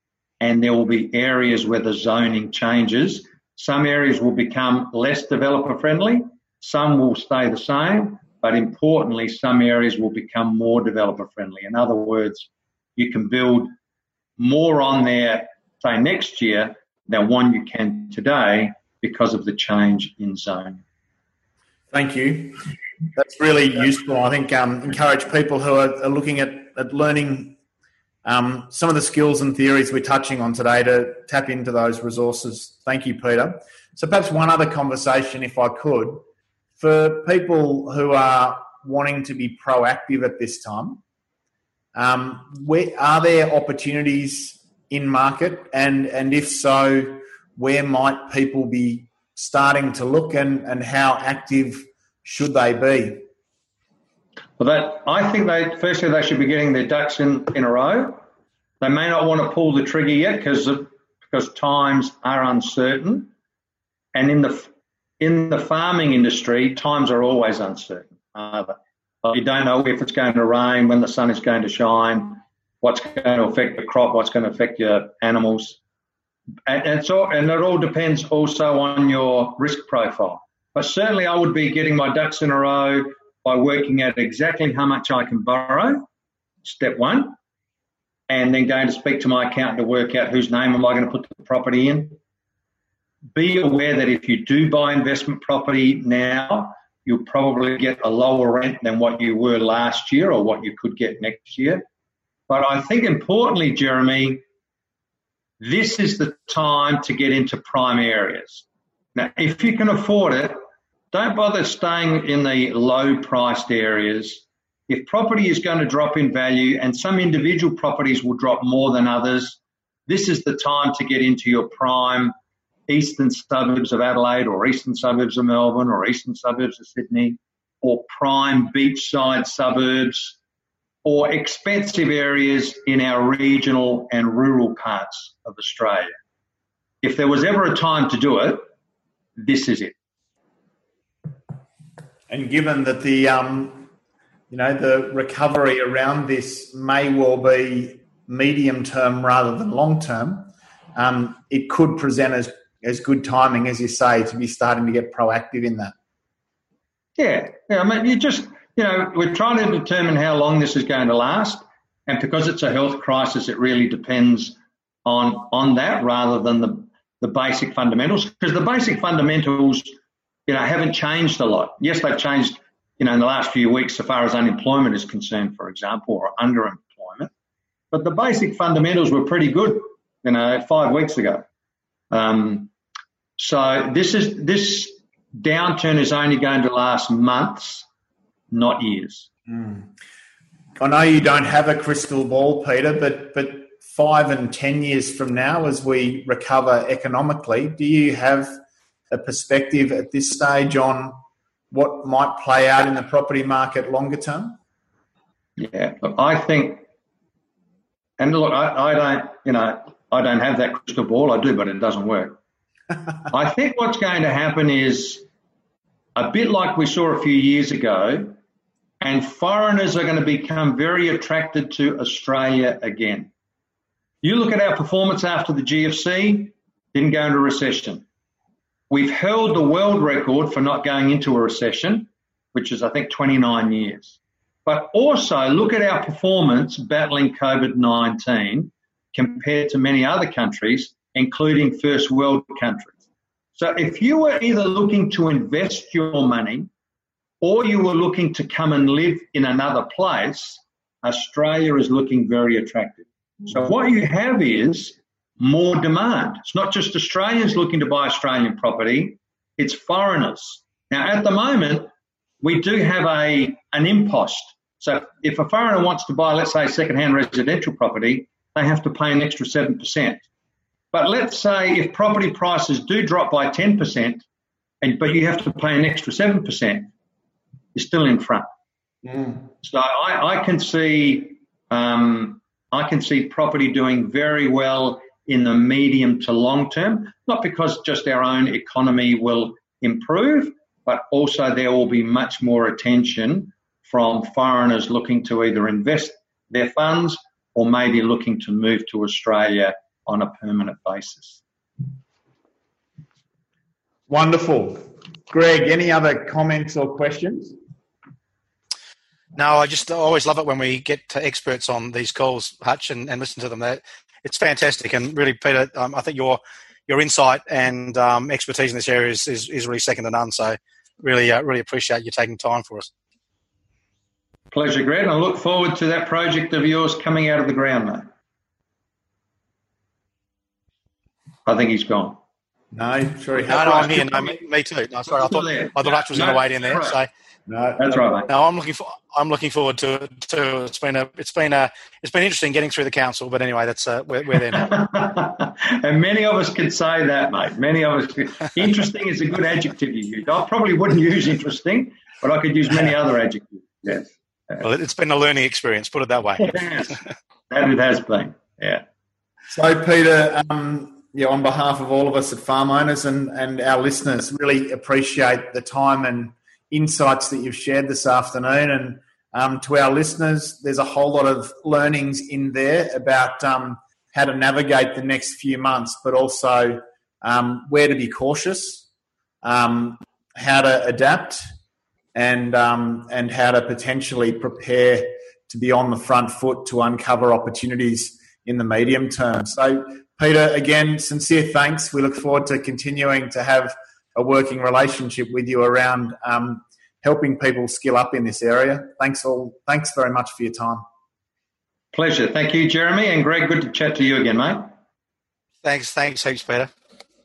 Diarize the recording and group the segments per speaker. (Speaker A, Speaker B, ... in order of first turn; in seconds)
Speaker A: 0.4-13.7, 14.4-20.8, 54.6-58.2, 58.8-63.3, 64.1-75.8, 76.7-86.0, 86.6-87.4, 88.3-92.2, 93.3-101.8, 102.5-104.4, 105.6-110.6, 111.1-122.3, 122.9-130.4, 131.0-136.2, 137.0-138.7, 139.4-139.9, 157.2-169.9, 170.5-177.3, 177.9-181.4, 182.1-182.7, 183.4-187.8, 188.5-189.3, 205.6-206.8, 208.2-212.4, 213.3-215.2, 216.1-218.3, 219.0-223.3, 224.2-228.0, 228.9-242.9, 243.6-246.7, 247.4-261.9, 262.4-270.2, 270.9-274.2, 274.8-276.9, 277.7-278.5, 279.6-301.4, 324.5-328.1, 331.4-332.2, 335.1-337.0, 337.8-338.3, 344.5-354.6, 356.4-357.0, 357.5-358.8, 401.9-404.7
Speaker B: 21.9-27.6, 28.2-36.2, 36.8-41.0, 41.9-53.2, 142.3-143.9, 144.5-155.9, 189.5-189.9, 190.8-198.6, 199.1-201.2, 201.7-204.6, 279.0-279.4, 304.1-307.6, 332.7-334.1, 337.5-337.9, 359.5-378.9, 379.4-381.4, 382.1-400.8
Speaker C: 309.4-322.9, 333.5-337.1, 338.3-344.8, 354.6-356.6, 405.6-406.7